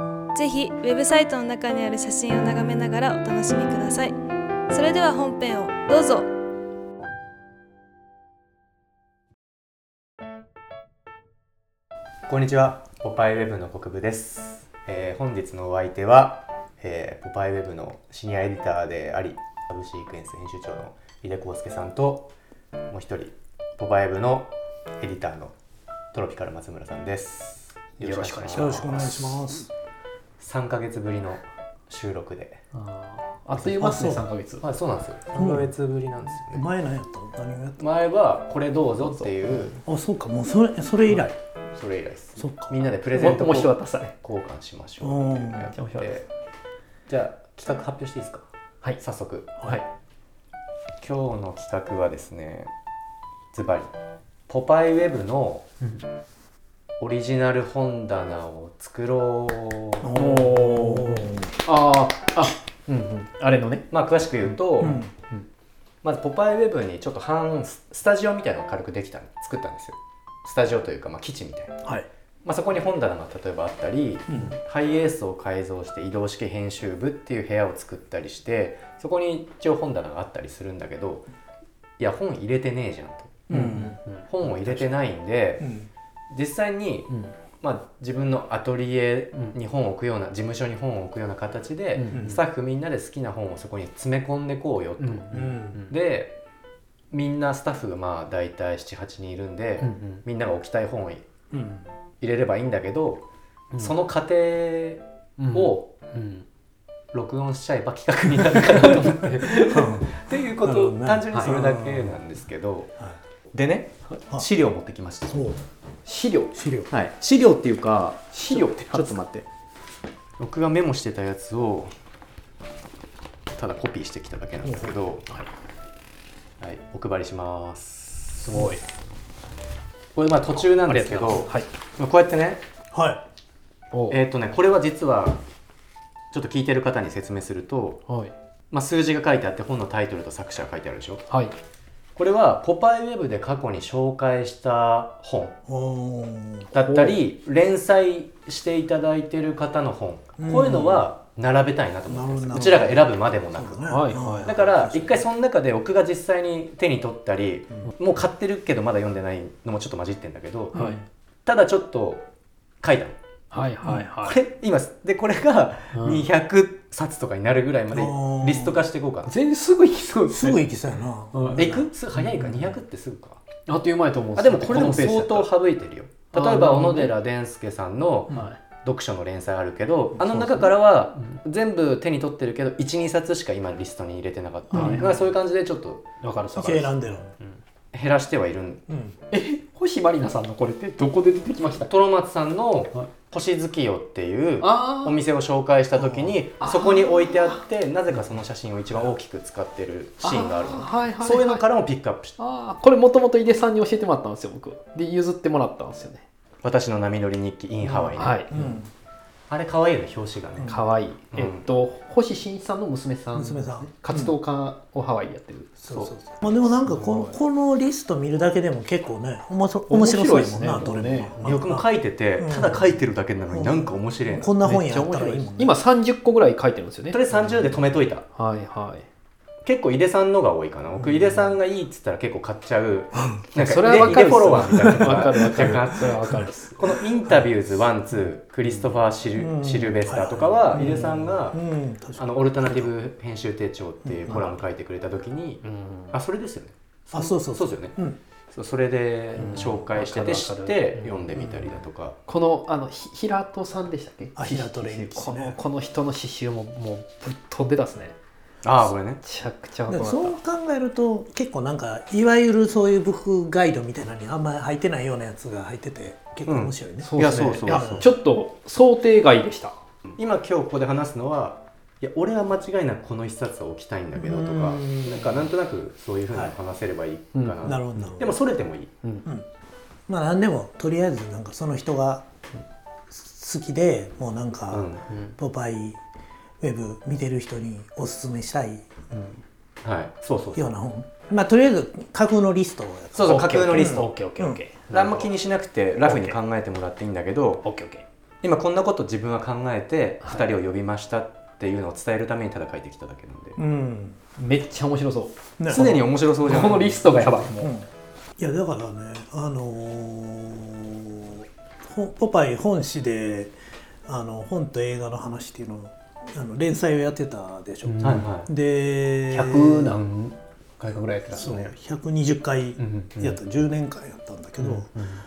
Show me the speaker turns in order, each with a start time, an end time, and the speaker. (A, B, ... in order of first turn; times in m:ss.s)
0:00.3-0:04.2 A
0:04.7-0:06.3 A
0:12.3-0:22.3 B
0:22.9-0:25.5 B
0:26.1-0:29.4 B
0:28.0-0:29.4 C
0:28.5-0:29.7 D
0:30.4-0:32.6 B
0:32.7-0:34.6 C
0:33.7-0:36.7 B
0:33.8-0:34.2 D
0:35.4-0:35.7 D
0:36.5-0:37.8 D
0:37.8-0:39.8 B
0:39.8-0:41.3 D
0:41.1-0:46.3 B
0:42.4-0:43.3 D
0:43.2-0:44.1 C
0:45.0-0:45.7 D
0:45.7-0:46.1 C
0:47.1-0:48.5 B
0:49.0-0:49.7 B
0:51.0-0:52.7 B
0:53.5-0:53.9 B
0:54.5-0:55.7 B
0:57.0-1:00.2 B
1:00.0-1:01.5 D
1:00.1-1:03.9 C
1:03.9-1:05.0 B
1:04.4-1:05.5 C
1:04.8-1:05.1 D
1:06.0-1:11.8 B
1:12.4-1:21.3 B
1:22.0-1:25.7 B
1:23.5-1:24.0 D
1:23.5-1:24.9 C
1:25.6-1:25.9 D
1:26.3-1:36.4 B
1:32.0-1:32.4 C
1:32.1-1:32.4 D
1:35.0-1:35.9 C
1:35.3-1:35.8 D
1:37.1-1:41.2 B
1:39.8-1:40.2 C
1:41.5-1:41.8 D
1:42.2-1:43.2 B
1:43.8-1:45.9 B
1:45.4-1:46.4 C
1:47.1-1:52.9 B
1:48.4-1:49.0 C
1:49.6-1:52.2 D
1:51.3-1:51.6 C
1:53.5-1:55.5 B
1:55.3-1:55.6 D
1:56.1-1:56.6 C
1:56.5-1:56.9 D
1:56.9-1:59.4 B
1:58.3-1:59.2 C
2:00.4-2:01.9 B
2:03.6-2:05.3 B
2:04.6-2:05.0 D
2:06.6-2:08.8 B
2:08.4-2:08.8 C
2:10.2-2:12.6 B
2:10.6-2:11.7 C
2:12.9-2:13.2 D
2:13.9-2:14.2 C
2:14.1-2:15.4 B
2:16.3-2:18.0 B
2:18.1-2:18.3 C
2:18.7-2:21.2 B
2:22.2-2:25.6 B
2:25.7-2:26.7 D
2:26.7-2:40.9 B
2:26.8-2:27.2 C
2:30.4-2:31.1 D
2:32.1-2:35.2 D
2:33.9-2:34.5 C
2:40.7-2:41.0 D
2:40.7-2:41.0 C
2:41.5-2:42.2 B
2:42.8-2:43.2 B
2:43.5-2:44.4 C
2:44.2-2:49.3 B
2:45.9-2:46.2 C
2:47.9-2:48.8 D
2:49.3-2:50.6 C
2:50.3-2:51.9 D
2:51.3-2:51.7 C
2:51.6-2:53.4 B
2:52.4-2:52.7 C
2:53.7-2:55.5 C
2:54.4-3:06.0 B
2:56.3-2:57.1 C
2:58.3-2:58.6 C
3:04.7-3:05.1 D
3:04.7-3:05.2 C
3:06.2-3:07.6 C
3:06.6-3:07.3 D
3:07.9-3:08.8 B
3:08.9-3:09.2 D
3:09.3-3:11.9 C
3:11.9-3:22.4 B
3:14.6-3:15.2 C
3:16.0-3:16.3 D
3:16.6-3:17.6 C
3:20.2-3:21.6 C
3:22.4-3:26.2 C
3:26.6-3:28.8 B
3:27.9-3:28.9 D
3:28.1-3:28.5 C
3:29.5-3:30.8 B
3:30.7-3:35.8 C
3:31.3-3:31.6 B
3:33.3-3:34.3 D
3:35.8-3:41.9 D
3:36.8-3:37.3 C
3:39.9-3:41.6 C
3:41.4-3:44.5 B
3:42.4-3:42.9 D
3:43.5-3:45.8 D
3:44.6-3:47.2 C
3:47.1-3:48.2 B
3:48.4-3:49.1 C
3:49.6-4:01.6 B
3:53.6-3:56.8 C
3:54.7-3:55.7 D
3:59.4-4:02.9 D
4:00.8-4:01.1 C
4:02.2-4:08.0 B
4:04.1-4:04.4 D
4:05.6-4:06.2 C
4:07.1-4:08.2 D
4:08.5-4:12.2 B
4:09.4-4:11.4 C
4:11.4-4:11.6 D
4:12.3-4:18.2 C
4:14.4-4:15.6 D
4:18.6-4:19.2 B
4:19.2-4:20.4 C
4:19.9-4:27.1 D
4:26.5-4:28.1 B
4:27.0-4:29.8 C
4:27.6-4:28.1 D
4:30.2-4:38.9 B
4:34.2-4:35.5 D
4:37.4-4:38.1 C
4:37.6-4:38.3 D
4:40.1-4:42.2 D
4:43.1-4:46.0 D
4:44.7-4:45.1 B
4:45.1-4:45.4 C
4:46.6-4:48.9 D
4:49.8-4:50.7 B
4:50.6-4:54.6 D
4:53.2-4:54.1 B
4:53.2-4:55.3 C
4:54.9-4:57.6 B
4:56.1-4:56.4 C
4:57.6-4:58.0 C
4:58.4-5:03.6 B
5:03.6-5:04.2 D
5:04.4-5:07.7 C
5:05.6-5:06.1 D
5:05.7-5:07.3 B
5:07.5-5:13.5 D
5:14.1-5:20.0 D
5:17.8-5:18.3 C
5:18.0-5:18.5 B
5:19.3-5:21.7 C
5:21.4-5:24.9 D
5:22.8-5:23.4 B
5:24.6-5:25.1 C